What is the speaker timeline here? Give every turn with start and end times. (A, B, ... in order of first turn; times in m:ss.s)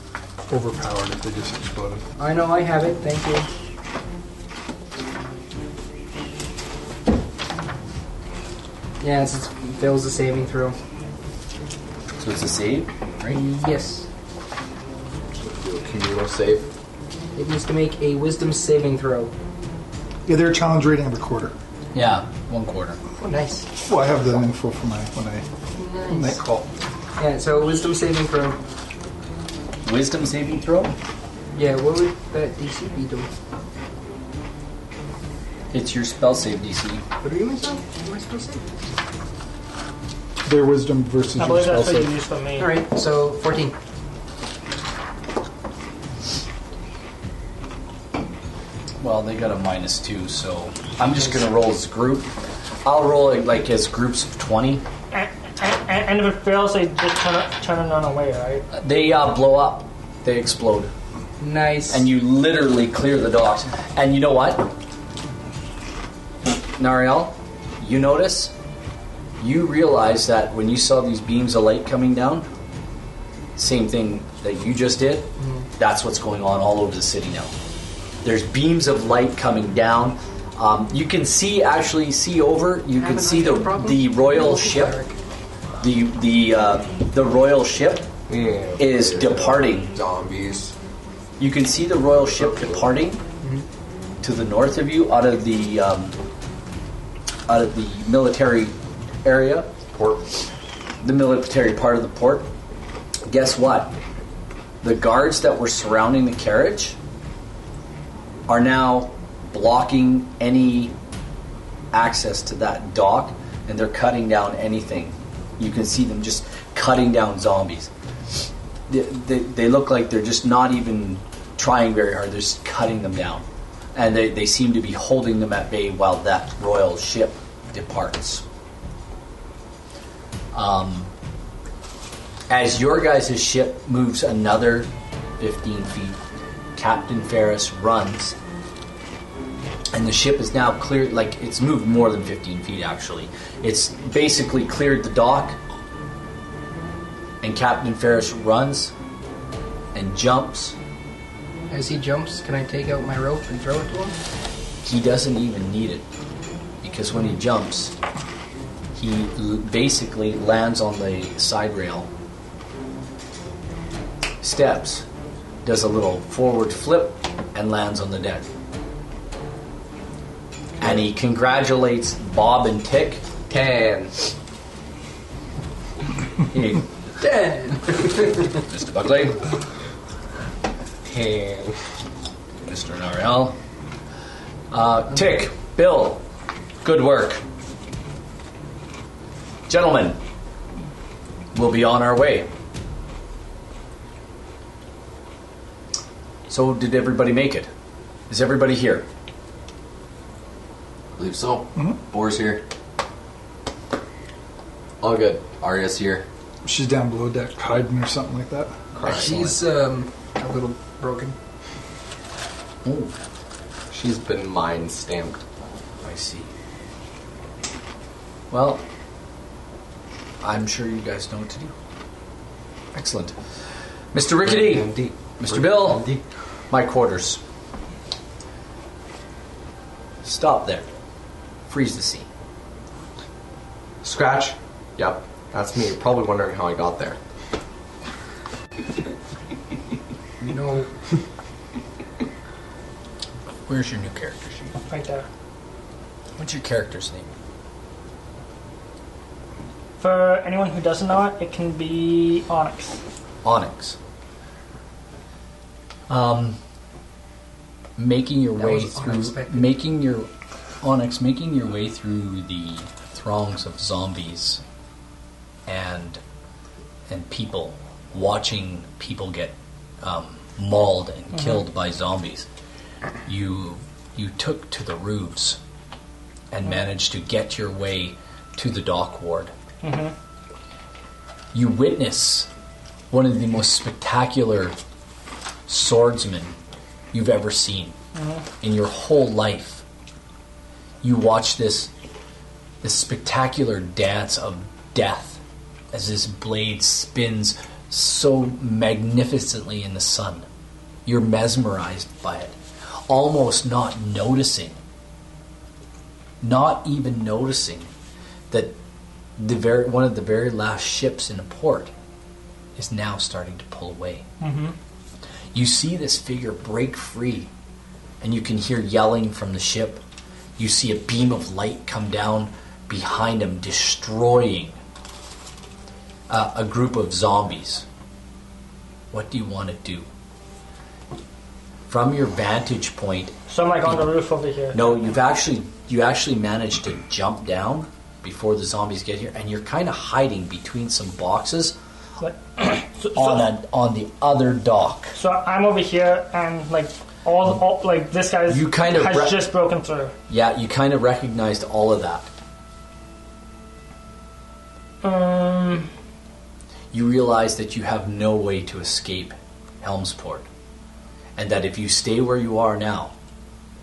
0:00.5-0:02.0 A
0:02.2-0:03.5 B
0:09.0-0:10.8 B
0:12.2-0:13.4 C
0:13.3-0:14.1 B
0:15.4-0:16.7 D
0:17.4-0:19.3 B
0:20.3-0:21.5 A
0:21.9-0:23.0 C
0:23.2-0:23.7 B
0:23.8-0:25.4 A
0:25.8-0:26.4 B
0:26.1-0:26.7 A
0:27.2-0:28.6 B
0:29.8-0:31.0 C
0:31.5-0:33.3 B
0:35.7-0:37.0 C
0:37.2-0:38.7 B
0:40.4-0:42.1 A
0:41.4-0:42.7 E
0:42.6-0:43.8 B
0:49.0-0:52.3 C
0:52.8-0:54.8 C
0:55.1-0:58.7 E
0:58.7-1:00.9 C
1:01.4-1:02.1 B
1:01.9-1:04.7 C
1:06.8-1:08.5 C
1:09.4-1:12.5 C
1:13.6-1:17.5 C
1:15.4-1:15.7 B
1:18.2-1:25.0 C
1:23.0-1:25.2 B
1:25.8-1:28.1 C
1:28.3-1:30.7 D
1:28.8-1:29.9 C
1:31.4-1:33.2 C
1:32.2-1:32.8 D
1:34.2-1:36.2 C
1:37.5-1:39.7 C
1:39.9-1:40.2 D
1:41.0-1:42.5 C
1:43.3-1:44.0 C
1:44.8-1:47.0 C
1:48.5-1:50.9 C
1:51.9-1:57.9 C
1:58.9-2:03.4 C
2:04.0-2:08.4 C
2:10.5-2:11.1 C
2:12.5-2:16.2 C
2:16.8-2:18.4 C
2:19.9-2:25.6 C
2:27.4-2:28.9 C
2:30.0-2:30.8 C
2:31.7-2:34.2 B
2:34.8-2:36.1 C
2:36.8-2:37.9 C
2:38.9-2:42.1 C
2:44.4-2:45.0 C
2:45.6-2:48.5 C
2:50.8-2:53.2 C
2:53.5-2:54.1 D
2:56.5-2:56.9 C
2:57.2-2:58.5 B
2:58.5-2:59.4 C
3:01.0-3:01.8 D
3:02.6-3:03.6 C
3:04.7-3:06.2 C
3:06.8-3:07.4 C
3:09.7-3:10.2 C
3:11.5-3:12.5 C
3:16.5-3:17.7 C
3:18.3-3:19.1 C
3:21.2-3:22.6 F
3:25.0-3:26.3 F
3:25.0-3:25.3 D
3:26.6-3:28.8 A
3:28.9-3:29.6 C
3:29.0-3:29.3 D
3:29.0-3:31.4 B
3:32.8-3:33.1 C
3:33.9-3:35.4 D
3:36.0-3:36.5 C
3:38.5-3:38.8 C
3:40.4-3:41.7 C
3:42.9-3:43.4 C
3:44.1-3:46.1 C
3:44.5-3:46.2 F
3:46.7-3:47.4 C
3:50.2-3:50.8 C
3:51.7-3:52.3 C
3:54.0-3:57.2 D
4:00.4-4:00.9 B
4:03.7-4:04.7 C
4:04.9-4:05.3 E
4:06.4-4:07.3 C
4:10.0-4:13.0 E
4:13.4-4:14.0 C
4:16.1-4:16.6 C
4:18.0-4:20.3 C
4:18.6-4:19.7 B
4:20.8-4:24.6 C
4:25.7-4:26.2 C
4:27.1-4:32.5 C
4:33.3-4:35.6 C
4:36.5-4:39.5 C
4:39.8-4:40.1 E
4:41.5-4:42.5 C
4:43.1-4:44.8 C
4:45.7-4:46.6 C
4:47.1-4:48.0 C
4:48.2-4:48.4 E
4:48.6-4:49.8 C
4:51.0-4:51.9 C
4:52.8-4:55.4 C
4:55.9-5:00.5 C
5:01.1-5:02.6 C
5:03.1-5:04.8 C
5:06.4-5:07.9 C
5:08.5-5:08.8 C
5:09.4-5:11.9 C
5:12.8-5:14.2 C
5:14.4-5:14.8 E
5:15.5-5:17.5 C
5:18.2-5:20.0 C
5:20.6-5:24.8 C
5:26.3-5:27.8 C
5:29.1-5:30.1 C
5:31.9-5:34.1 C
5:33.5-5:35.0 E
5:34.7-5:41.8 C
5:42.2-5:43.4 E
5:43.2-5:45.1 C
5:45.2-5:50.1 E
5:48.5-5:49.5 C
5:50.3-5:52.3 C
5:55.0-5:55.9 E
5:56.9-6:00.5 C
6:01.4-6:03.1 C